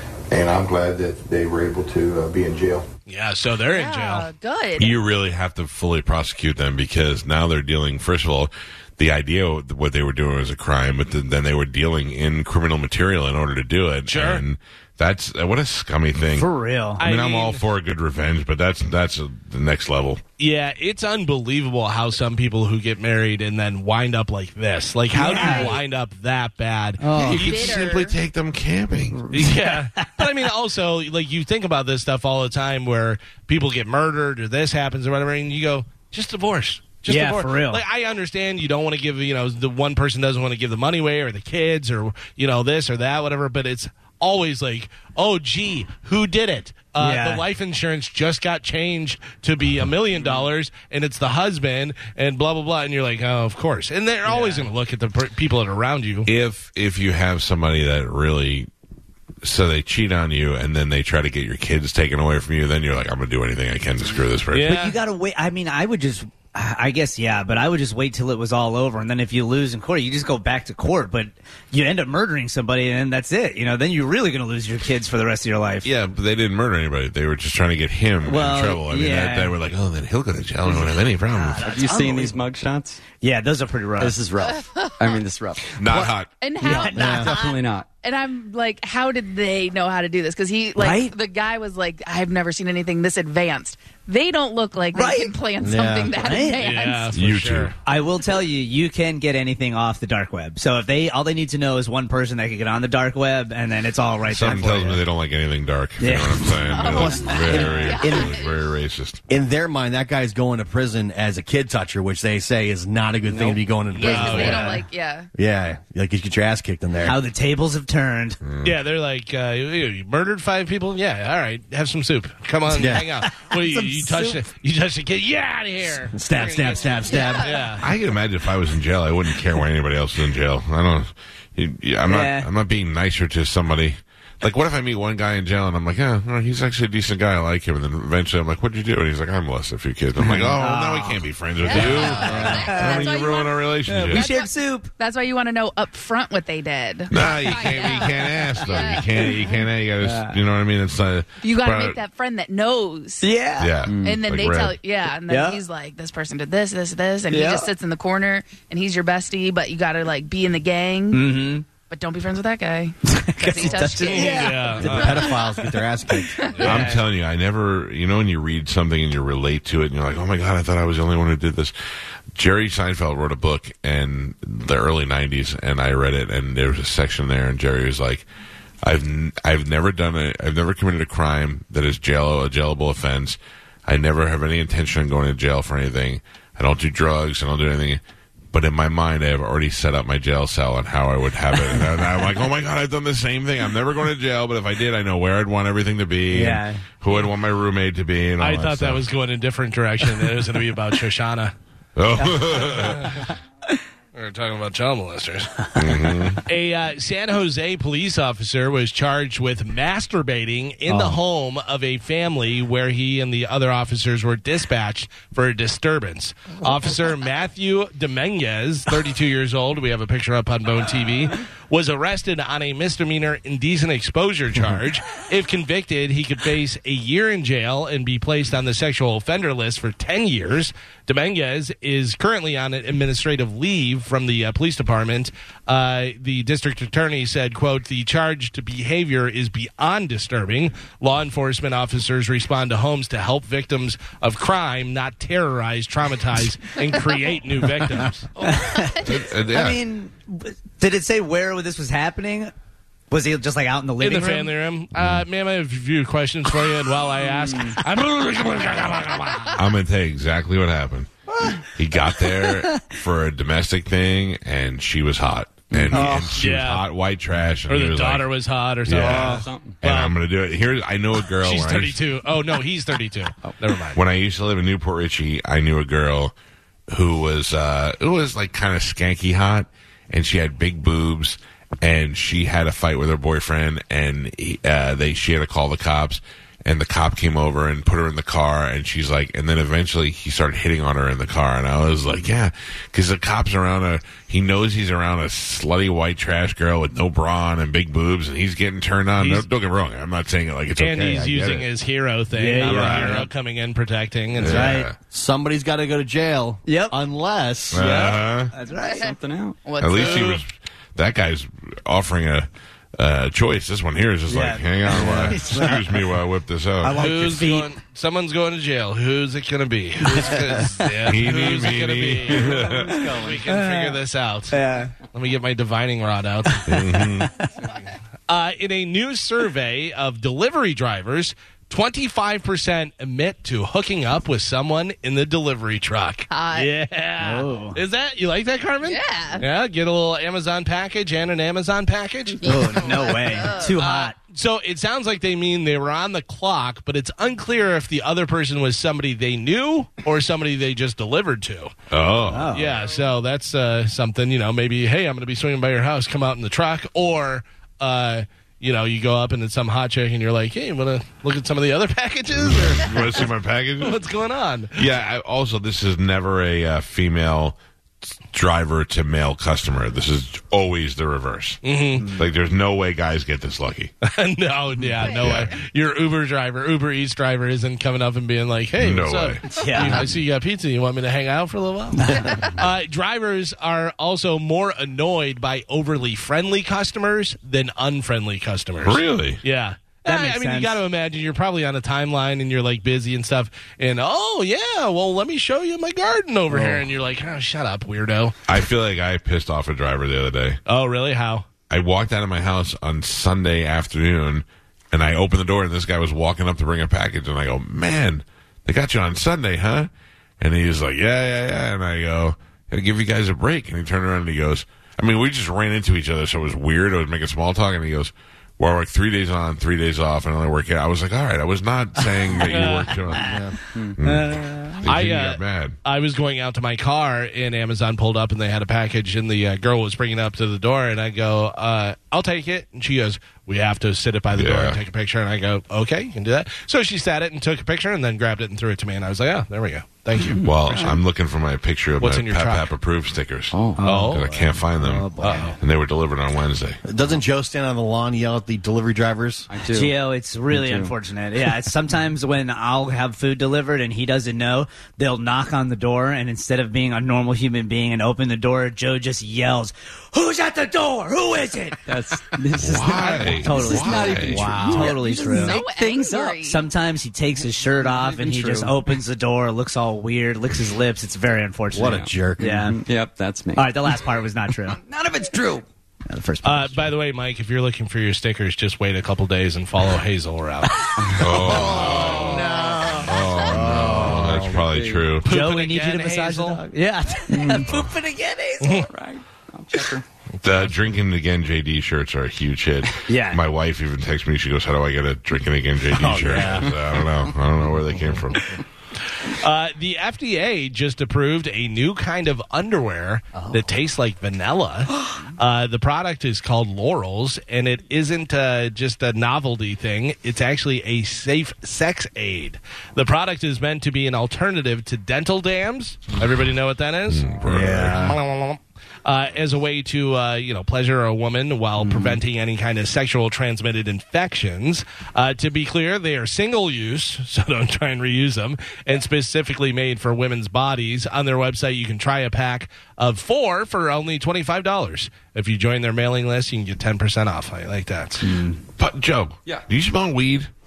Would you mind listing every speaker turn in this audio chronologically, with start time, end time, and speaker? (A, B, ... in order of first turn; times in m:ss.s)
0:00.3-0:02.8 A
0:03.1-0:04.3 B
0:03.7-0:05.0 C
0:04.8-0:16.5 D
0:14.1-0:14.4 B
0:16.3-0:17.0 E
0:17.0-0:17.6 B
0:17.0-0:20.2 D
0:20.4-0:27.7 B
0:25.1-0:25.8 E
0:25.3-0:25.8 C
0:27.0-0:27.5 E
0:27.2-0:29.3 D
0:27.2-0:28.2 C
0:29.3-0:30.3 E
0:29.3-0:56.3 B
0:37.1-0:37.8 E
0:47.0-0:47.4 E
0:54.3-0:54.7 E
0:56.2-0:58.7 D
0:59.4-1:04.7 D
1:04.5-1:05.0 B
1:04.6-1:15.9 E
1:15.8-1:21.6 D
1:18.2-1:19.5 E
1:20.6-1:22.4 E
1:21.6-1:23.0 F
1:23.2-1:24.2 E
1:24.0-1:25.8 F
1:24.4-1:25.2 C
1:25.8-1:26.3 D
1:26.0-1:37.1 C
1:26.6-1:27.3 E
1:26.7-1:27.9 F
1:26.9-1:27.3 G
1:30.8-1:31.1 E
1:34.9-1:35.3 E
1:35.6-1:36.2 G
1:36.2-1:36.7 E
1:36.6-1:37.7 B
1:37.1-1:37.7 D
1:37.8-1:45.0 E
1:44.3-1:49.2 D
1:46.0-1:48.3 E
1:46.6-1:48.6 C
1:49.3-1:54.8 G
1:53.9-1:54.7 B
1:53.9-1:55.3 C
1:54.1-1:54.8 E
1:55.3-1:57.2 G
1:57.0-1:58.4 E
1:58.4-1:58.8 D
1:58.6-2:07.8 B
2:02.7-2:03.0 G
2:02.9-2:04.4 E
2:06.1-2:07.7 G
2:07.1-2:07.7 C
2:07.8-2:24.3 D
2:12.0-2:12.5 E
2:20.2-2:23.2 E
2:21.6-2:29.6 C
2:23.8-2:24.9 E
2:27.1-2:32.0 D
2:28.8-2:29.3 E
2:30.0-2:30.4 E
2:31.4-2:33.3 C
2:33.2-2:33.9 E
2:33.6-2:34.8 D
2:33.8-2:34.2 F
2:34.0-2:41.4 C
2:35.3-2:35.6 E
2:37.3-2:37.7 E
2:41.1-2:41.6 E
2:41.9-2:45.4 C
2:43.0-2:45.7 E
2:44.0-2:45.3 B
2:44.8-2:46.5 G
2:46.4-2:46.9 C
2:46.5-2:46.9 B
2:46.6-2:47.0 E
2:46.6-2:51.7 D
2:52.3-2:58.3 D
2:58.8-3:08.0 D
3:08.5-3:19.0 D
3:16.3-3:16.8 E
3:18.4-3:21.5 B
3:22.0-3:23.2 D
3:22.2-3:22.7 E
3:22.8-3:23.3 B
3:24.1-3:25.7 B
3:25.7-3:26.4 D
3:26.4-4:08.3 B
4:08.4-4:09.2 C
4:08.4-4:12.5 E
4:09.0-4:09.8 D
4:13.1-4:14.5 E
4:14.0-4:19.6 B
4:17.5-4:17.7 E
4:19.5-4:21.1 D
4:21.6-4:28.3 D
4:22.4-4:22.8 E
4:25.7-4:26.1 F
4:25.9-4:26.4 E
4:26.4-4:26.8 B
4:27.7-4:30.2 B
4:28.8-4:32.0 D
4:29.1-4:29.4 E
4:29.1-4:29.8 F
4:31.4-4:34.0 B
4:33.9-4:36.3 D
4:36.9-5:01.7 D
4:59.2-4:59.5 B
5:00.8-5:04.7 B
5:02.4-5:03.3 E
5:02.6-5:03.2 D
5:04.4-5:05.0 D
5:04.4-5:04.9 E
5:05.1-5:07.8 G
5:06.6-5:07.0 E
5:07.7-5:08.5 D
5:07.7-5:09.1 E
5:08.8-5:10.4 C
5:08.9-5:09.6 F
5:09.8-5:17.0 D
5:14.3-5:16.1 E
5:16.8-5:17.7 E
5:17.0-5:22.6 B
5:21.0-5:23.0 D
5:22.3-5:23.5 F
5:22.7-5:24.0 E
5:23.2-5:24.6 B
5:24.5-5:24.9 E
5:25.1-5:26.7 B
5:26.6-5:27.3 D
5:26.7-5:27.4 E
5:28.3-5:43.0 B
5:36.3-5:36.7 C
5:37.2-5:37.8 E
5:38.8-5:39.4 C
5:42.4-5:44.1 C
5:42.4-5:44.1 E
5:44.3-5:51.7 B
5:51.9-5:52.6 D
5:52.3-5:52.8 E
5:52.5-6:03.2 B
5:52.8-5:53.1 C
6:02.3-6:04.0 D
6:03.8-6:04.8 B
6:04.7-6:07.6 D
6:08.3-6:11.6 D
6:11.6-6:12.1 B
6:12.0-6:12.2 E
6:12.1-6:13.9 D
6:14.0-6:38.4 B
6:15.0-6:15.3 C
6:15.1-6:15.5 D
6:18.8-6:19.4 D
6:19.5-6:20.1 E
6:22.0-6:22.4 E
6:22.1-6:22.5 C
6:28.8-6:29.4 D
6:30.0-6:30.8 E
6:36.5-6:36.8 E
6:38.5-6:40.6 D
6:40.7-6:41.5 B
6:41.7-7:03.4 D
7:02.5-7:03.0 B
7:03.1-7:03.4 E
7:03.1-7:03.6 G
7:04.0-7:05.8 D
7:04.0-7:04.8 E
7:04.8-7:20.4 B
7:14.3-7:14.8 D
7:20.2-7:20.9 E
7:20.4-7:20.7 F
7:20.4-7:26.8 D
7:22.0-7:22.7 B
7:23.5-7:24.1 F
7:23.8-7:25.5 E
7:23.8-7:24.2 B
7:25.2-7:25.5 B
7:26.8-7:29.5 G
7:29.5-7:30.9 F
7:29.7-7:41.8 E
7:41.8-7:46.1 F
7:42.4-7:52.8 E
7:42.6-7:44.7 D
7:44.2-7:45.0 G
7:45.0-7:46.6 C
7:47.6-7:49.0 F
7:51.7-7:52.4 G
7:51.8-7:54.1 F
7:53.5-7:54.8 E
7:54.7-7:55.6 F
7:56.0-7:56.9 E
7:56.4-8:00.9 B
8:01.0-8:02.3 F
8:01.2-8:02.5 D
8:01.2-8:04.3 E
8:01.4-8:04.8 G
8:03.0-8:05.3 D
8:03.9-8:05.1 F
8:05.2-8:08.9 E
8:05.2-8:06.6 B
8:07.3-8:07.8 F
8:07.7-8:07.9 D
8:08.9-8:10.0 F
8:10.4-8:18.6 D
8:13.0-8:13.4 E
8:16.0-8:16.7 E
8:16.1-8:16.7 G
8:16.4-8:17.7 F
8:19.2-8:37.2 B
8:37.1-8:38.1 D
8:37.4-8:38.1 E
8:37.9-8:58.2 B
8:41.8-8:42.2 E
8:58.2-8:58.6 E
8:58.8-9:00.5 D